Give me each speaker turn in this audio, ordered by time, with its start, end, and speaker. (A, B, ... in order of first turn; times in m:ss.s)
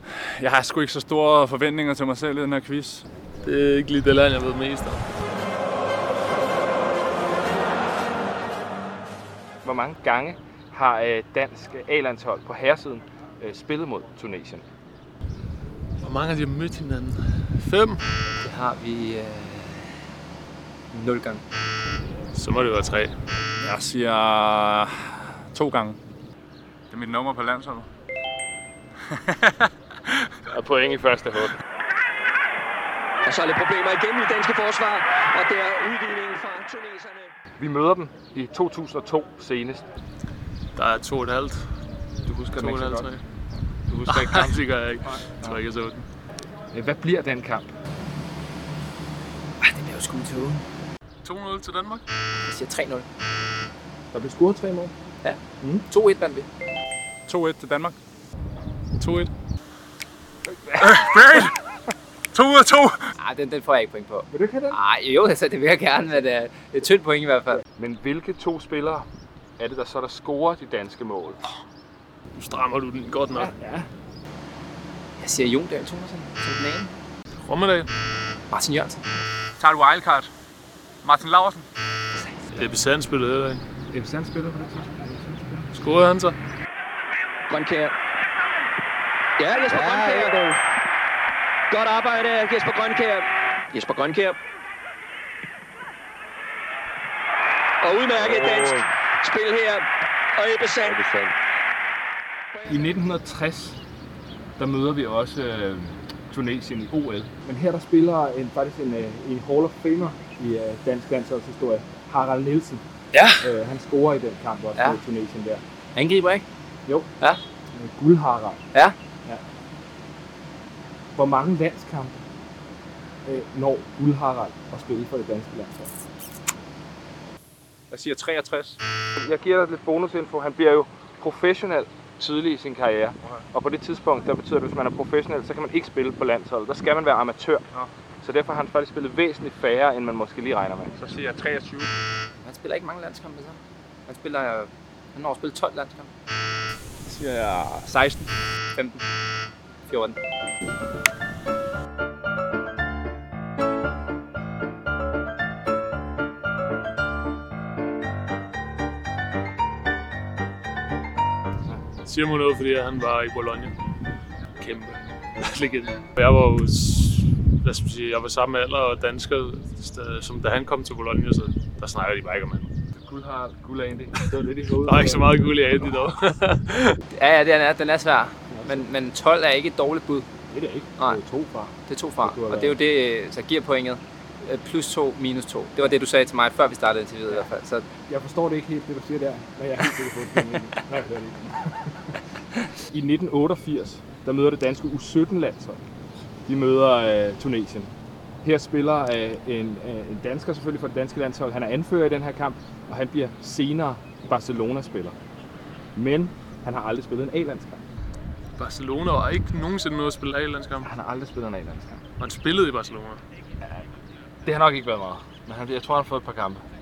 0:00.1-0:03.0 A
0:03.4-0:05.0 B
0:09.6-0:14.6 C
0:16.0-0:18.0 B
0:18.4-0:20.0 D
0:20.9-0:21.4 D
0:22.3-0:23.2 B
0:23.6-0:26.0 A
0:26.9-0:27.9 A
0:29.1-0:29.7 A
0:30.5-0:31.6 C
0:33.2-0:37.3 E
0:37.6-0:39.8 C
0:40.8-0:41.7 B
0:42.3-0:43.1 C
0:42.5-0:43.2 B
0:43.9-0:45.6 C
0:44.1-0:46.1 B
0:46.7-0:47.7 C
0:49.6-0:50.6 D
0:51.2-0:52.0 B
0:52.4-0:53.1 D
0:54.1-0:54.9 C
0:55.2-0:56.5 D
0:57.3-0:58.0 A
0:58.9-0:59.3 A
1:00.8-1:01.6 A
1:02.3-1:03.1 A
1:03.2-1:07.6 D
1:04.3-1:04.8 C
1:07.8-1:09.1 C
1:09.6-1:11.4 C
1:12.3-1:13.5 B
1:13.3-1:13.9 C
1:15.2-1:17.0 D
1:17.4-1:17.9 B
1:18.5-1:19.0 D
1:19.6-1:20.3 A
1:21.0-1:21.7 A
1:22.5-1:23.6 B
1:23.9-1:25.7 C
1:25.7-1:26.4 B
1:27.5-1:28.0 E
1:29.4-1:30.5 E
1:29.7-1:30.5 C
1:31.7-1:34.4 E
1:37.8-1:41.3 E
1:38.2-1:38.9 C
1:42.5-1:42.8 E
1:42.7-1:43.8 C
1:44.6-1:52.8 C
1:53.1-1:53.5 D
1:53.4-1:55.6 C
1:56.0-1:56.4 D
1:57.7-1:58.6 C
2:01.2-2:02.2 C
2:03.2-2:05.9 C
2:07.9-2:08.8 A
2:09.2-2:17.7 C
2:18.2-2:21.0 C
2:21.1-2:21.9 A
2:22.4-2:26.1 D
2:27.1-2:28.2 A
2:28.8-2:29.0 D
2:29.9-2:30.2 D
2:42.0-2:43.8 B
2:44.6-2:52.7 B
2:52.9-2:55.4 C
2:54.8-2:57.0 B
2:57.1-3:00.3 D
2:58.5-2:58.8 C
3:00.5-3:02.8 C
3:01.9-3:07.9 D
3:08.1-3:11.9 C
3:12.9-3:15.8 C
3:16.5-3:17.9 C
3:18.4-3:25.2 C
3:26.0-3:27.8 C
3:28.6-3:30.9 B
3:30.8-3:32.0 C
3:32.2-3:33.2 B
3:34.4-3:36.6 C